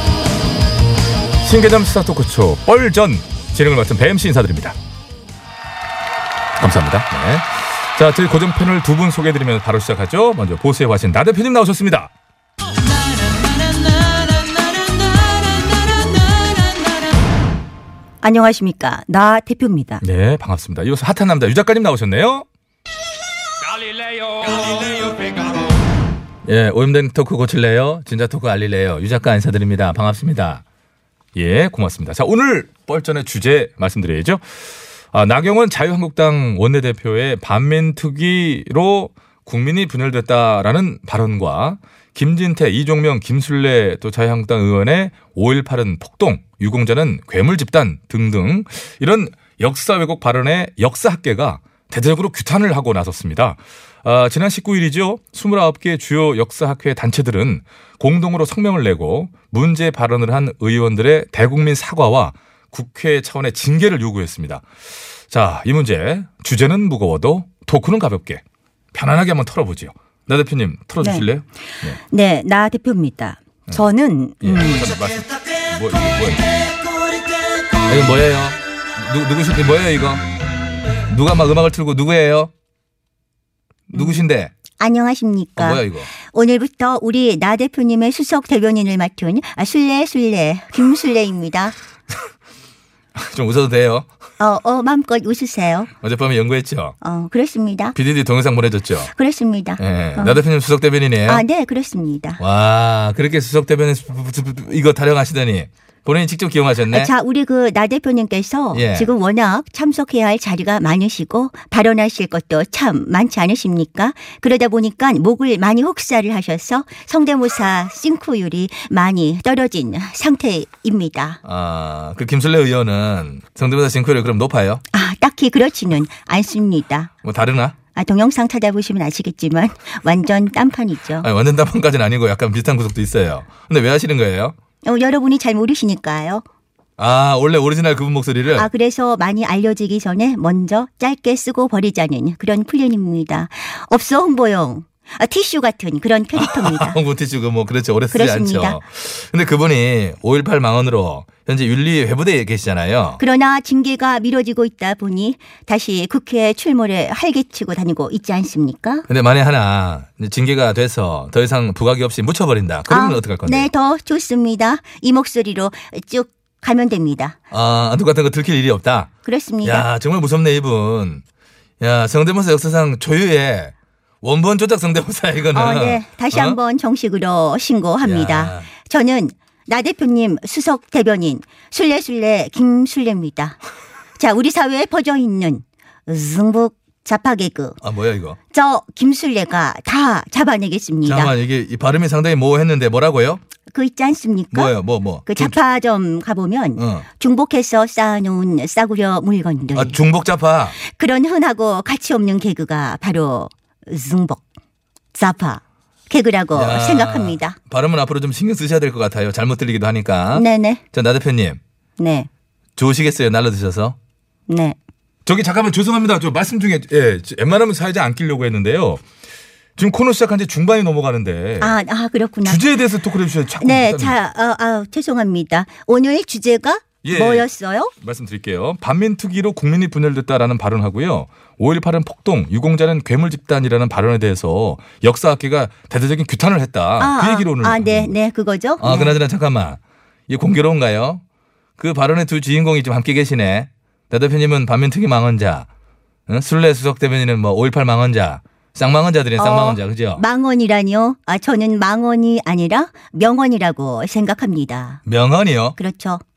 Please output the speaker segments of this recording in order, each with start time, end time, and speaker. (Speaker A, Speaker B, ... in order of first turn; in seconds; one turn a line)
Speaker A: 1.4-4.8
Speaker A: 6.6-12.1
Speaker B: 18.2-20.0
Speaker A: 20.0-22.4
Speaker A: 26.5-30.6
Speaker A: 31.4-34.4
Speaker A: 35.1-64.6
Speaker A: 65.3-68.4
Speaker A: 68.9-72.0
Speaker B: 71.0-71.3
Speaker B: 71.9-74.9
Speaker A: 74.4-76.5
Speaker A: 77.9-80.2
Speaker A: 81.1-82.5
Speaker A: 83.9-84.5
Speaker B: 83.9-84.2
Speaker B: 84.8-91.8
Speaker A: 85.6-86.1
Speaker A: 93.1-94.1
Speaker B: 94.4-95.9
Speaker A: 95.9-97.0
Speaker B: 97.0-98.0
Speaker A: 98.0-99.1
Speaker B: 99.1-100.4
Speaker A: 99.8-101.4
Speaker B: 101.3-102.4
Speaker A: 102.4-107.1
Speaker B: 106.9-121.4
Speaker A: 108.7-109.1
Speaker A: 121.4-124.8
Speaker B: 124.9-127.1
Speaker A: 127.2-127.7
Speaker B: 127.9-131.3
Speaker A: 131.2-134.5
Speaker B: 134.8-136.4
Speaker A: 137.0-138.7
Speaker B: 138.6-147.0
Speaker A: 146.3-153.2
Speaker B: 148.1-148.8
Speaker B: 153.2-159.1
Speaker A: 159.1-163.7
Speaker B: 162.9-167.4
Speaker A: 167.5-169.1
Speaker B: 169.2-169.9
Speaker A: 169.6-171.2
Speaker A: 171.8-176.6
Speaker B: 175.5-183.6
Speaker A: 178.0-178.7
Speaker B: 184.2-187.8
Speaker A: 187.8-188.4
Speaker B: 188.5-191.3
Speaker A: 191.0-193.4
Speaker B: 193.7-194.7
Speaker A: 194.5-195.6
Speaker B: 195.2-200.0
Speaker A: 196.8-197.1
Speaker A: 199.7-200.8
Speaker B: 200.8-204.4
Speaker B: 205.1-207.6
Speaker A: 206.5-211.6
Speaker B: 210.3-210.8
Speaker B: 212.0-212.3
Speaker A: 212.8-213.9
Speaker B: 214.5-214.8
Speaker A: 215.2-219.0
Speaker A: 219.8-221.7
Speaker B: 221.6-222.6
Speaker A: 222.4-224.2
Speaker B: 223.6-227.9
Speaker A: 227.0-238.1
Speaker B: 237.0-239.2
Speaker A: 238.8-241.2
Speaker A: 241.8-245.7
Speaker A: 246.3-250.2
Speaker B: 249.4-255.0
Speaker A: 255.1-255.8
Speaker B: 255.8-256.2